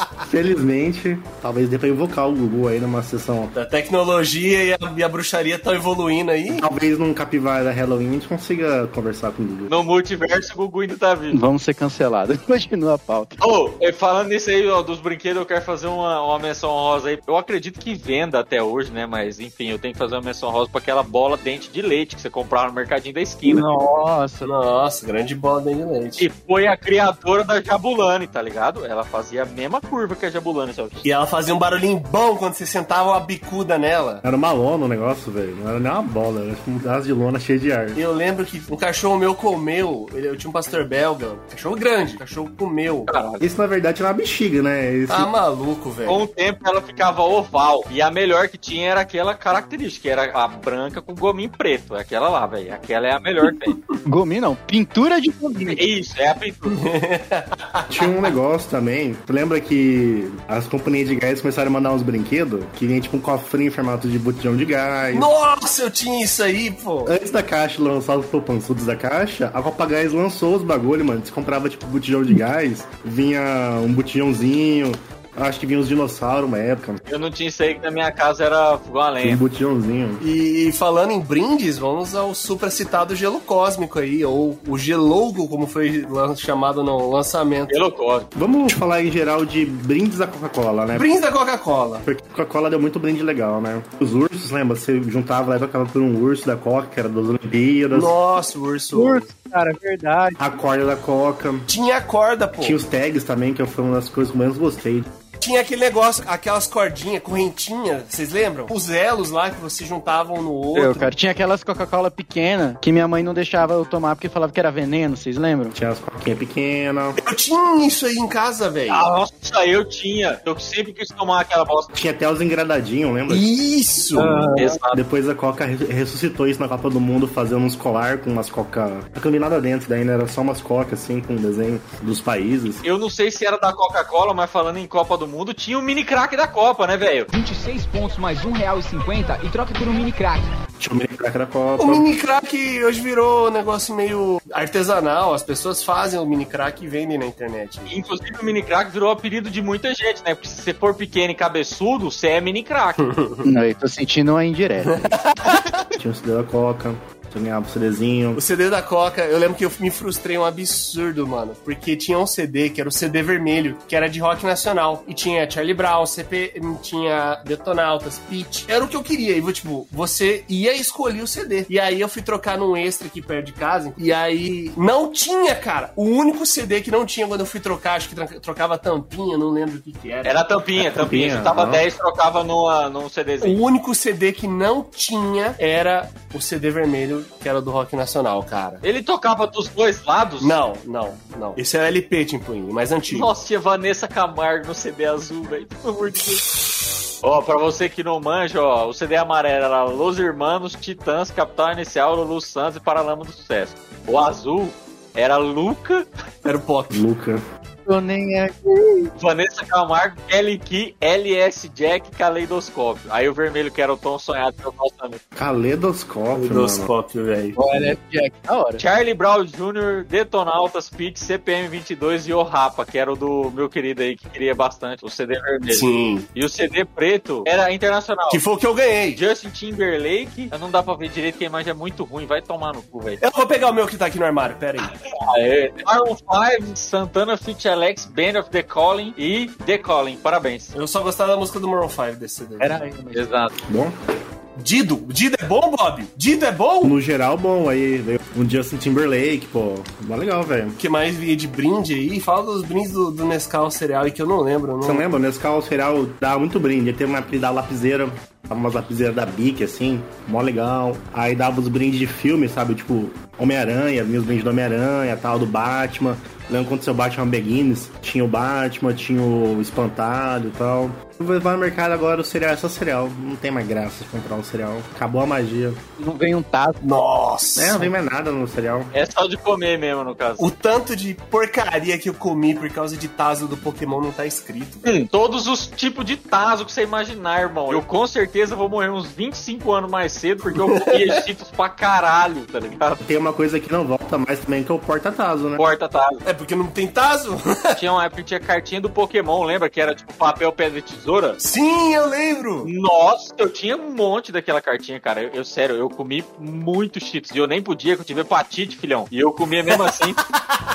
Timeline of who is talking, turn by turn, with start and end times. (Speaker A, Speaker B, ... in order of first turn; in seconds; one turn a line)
Speaker A: 0.2-3.5
Speaker B: 3.5-6.6
Speaker A: 6.5-9.7
Speaker C: 9.7-11.4
Speaker D: 11.3-13.3
Speaker C: 13.4-23.7
Speaker D: 23.4-24.5
Speaker B: 24.4-26.2
Speaker C: 26.2-31.0
Speaker B: 31.0-34.2
Speaker A: 34.2-38.0
Speaker B: 37.9-43.1
Speaker C: 43.1-43.4
Speaker A: 43.4-45.3
Speaker B: 45.1-46.2
Speaker C: 46.0-53.8
Speaker D: 54.0-55.8
Speaker C: 55.7-56.8
Speaker B: 56.7-58.2
Speaker A: 57.9-65.3
Speaker B: 65.1-67.1
Speaker A: 67.0-77.0
Speaker C: 77.1-79.4
Speaker A: 79.2-80.2
Speaker B: 80.2-87.7
Speaker C: 87.7-88.3
Speaker A: 88.3-91.1
Speaker B: 90.9-92.0
Speaker A: 92.0-98.1
Speaker B: 97.9-99.3
Speaker D: 98.9-100.4
Speaker A: 100.4-101.7
Speaker B: 101.7-102.8
Speaker A: 102.6-105.1
Speaker B: 105.4-111.1
Speaker D: 110.7-115.7
Speaker A: 115.7-117.2
Speaker B: 117.2-119.1
Speaker C: 118.9-121.9
Speaker A: 121.9-123.5
Speaker B: 123.3-124.4
Speaker D: 124.2-124.7
Speaker C: 124.5-125.0
Speaker A: 124.9-132.8
Speaker C: 132.8-137.3
Speaker E: 137.3-140.6
Speaker A: 140.8-142.1
Speaker B: 141.8-147.9
Speaker C: 147.9-153.1
Speaker B: 153.0-153.4
Speaker D: 153.4-155.1
Speaker B: 154.9-155.6
Speaker A: 156.0-158.4
Speaker B: 158.3-180.4
Speaker C: 180.2-183.6
Speaker A: 180.8-181.8
Speaker B: 183.4-188.8
Speaker C: 188.8-190.6
Speaker B: 190.4-193.3
Speaker C: 193.1-196.5
Speaker C: 197.2-206.1
Speaker B: 206.4-207.0
Speaker A: 206.9-207.4
Speaker D: 207.9-209.1
Speaker C: 209.2-215.2
Speaker A: 215.3-216.9
Speaker B: 216.3-217.6
Speaker D: 217.6-218.8
Speaker C: 218.8-228.4
Speaker B: 225.7-226.2
Speaker B: 228.3-229.2
Speaker C: 229.2-233.2
Speaker B: 233.2-234.9
Speaker C: 235.1-240.7
Speaker B: 240.7-242.8
Speaker D: 242.6-243.2
Speaker C: 243.1-243.5
Speaker A: 243.6-243.9
Speaker B: 244.6-246.9
Speaker A: 246.8-250.8
Speaker B: 250.8-255.0
Speaker A: 254.8-275.8
Speaker D: 276.0-276.8
Speaker B: 276.8-277.9
Speaker A: 277.6-278.9
Speaker C: 278.9-280.5
Speaker B: 280.4-284.9
Speaker C: 284.8-293.0
Speaker B: 290.5-291.2
Speaker A: 293.0-295.6
Speaker C: 295.6-296.2
Speaker B: 296.2-297.8
Speaker C: 297.7-301.4
Speaker B: 301.4-302.7
Speaker C: 302.6-310.2